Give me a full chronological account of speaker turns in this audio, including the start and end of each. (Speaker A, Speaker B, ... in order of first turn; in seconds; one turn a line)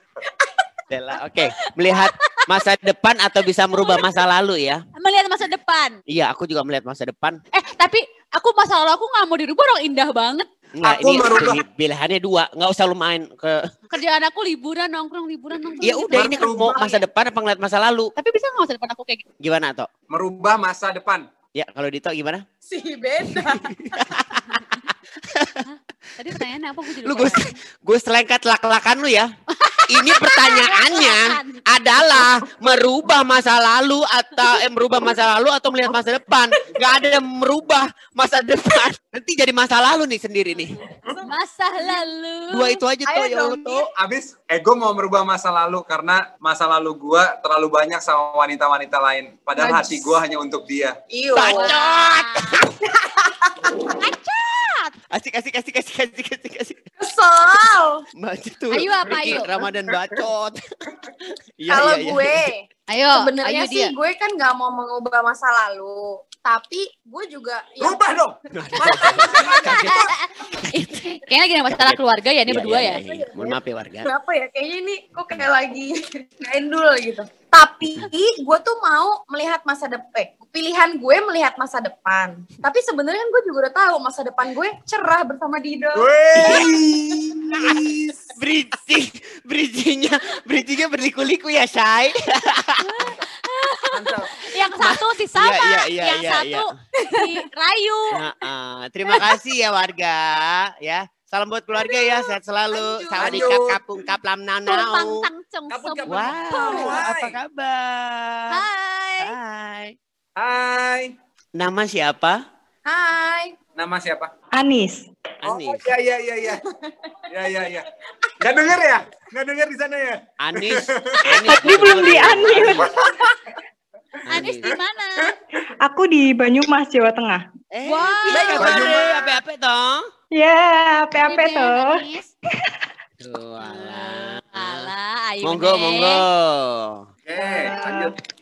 Speaker A: 0.9-4.8
Speaker B: 1.4-2.5
Speaker B: 3.7-4.0
Speaker B: 4.9-6.0
Speaker A: 6.1-7.4
Speaker B: 7.5-10.5
Speaker A: 10.8-13.7
Speaker C: 10.8-11.6
Speaker B: 13.9-16.4
Speaker A: 15.8-18.1
Speaker C: 16.1-16.9
Speaker B: 18.1-19.2
Speaker A: 19.4-19.9
Speaker C: 20.1-21.2
Speaker A: 21.5-22.4
Speaker D: 22.7-23.6
Speaker A: 23.4-25.6
Speaker B: 24.4-24.8
Speaker B: 25.6-27.5
Speaker A: 27.0-29.3
Speaker B: 29.5-31.6
Speaker A: 29.9-40.8
Speaker B: 41.2-42.8
Speaker A: 42.5-43.9
Speaker D: 43.1-43.9
Speaker C: 43.9-51.0
Speaker D: 49.6-50.2
Speaker D: 51.1-51.7
Speaker A: 51.3-52.6
Speaker B: 51.4-52.6
Speaker D: 52.8-53.9
Speaker B: 54.0-54.9
Speaker A: 55.1-56.8
Speaker D: 57.0-58.0
Speaker A: 58.2-60.6
Speaker B: 58.7-59.5
Speaker A: 61.6-62.5
Speaker D: 61.7-68.0
Speaker B: 62.9-63.9
Speaker C: 67.8-69.5
Speaker A: 68.5-71.1
Speaker D: 68.8-69.7
Speaker B: 69.2-73.0
Speaker A: 71.7-74.1
Speaker D: 73.0-86.1
Speaker C: 85.9-88.3
Speaker A: 86.3-87.8
Speaker A: 88.3-92.9
Speaker B: 92.8-98.2
Speaker C: 93.9-94.3
Speaker A: 94.8-96.7
Speaker D: 97.0-97.4
Speaker A: 98.1-105.2
Speaker D: 102.7-103.5
Speaker C: 103.2-103.8
Speaker B: 104.7-107.0
Speaker C: 105.7-107.4
Speaker A: 106.1-108.6
Speaker B: 108.5-109.3
Speaker A: 109.2-109.9
Speaker C: 110.3-111.1
Speaker A: 111.6-112.4
Speaker D: 112.8-113.5
Speaker C: 113.8-114.3
Speaker E: 114.5-115.0
Speaker A: 115.4-115.8
Speaker C: 115.4-116.6
Speaker C: 117.3-117.9
Speaker C: 118.4-121.3
Speaker A: 120.4-122.9
Speaker E: 121.5-122.9
Speaker C: 122.0-123.3
Speaker A: 124.2-124.8
Speaker B: 124.3-125.3
Speaker E: 125.8-127.4
Speaker A: 127.7-130.1
Speaker B: 127.8-128.8
Speaker D: 128.3-128.9
Speaker C: 128.5-129.3
Speaker E: 130.3-132.0
Speaker B: 131.2-132.3
Speaker A: 133.2-134.9
Speaker B: 133.6-136.2
Speaker A: 135.4-137.0
Speaker C: 137.2-138.1
Speaker E: 137.4-138.1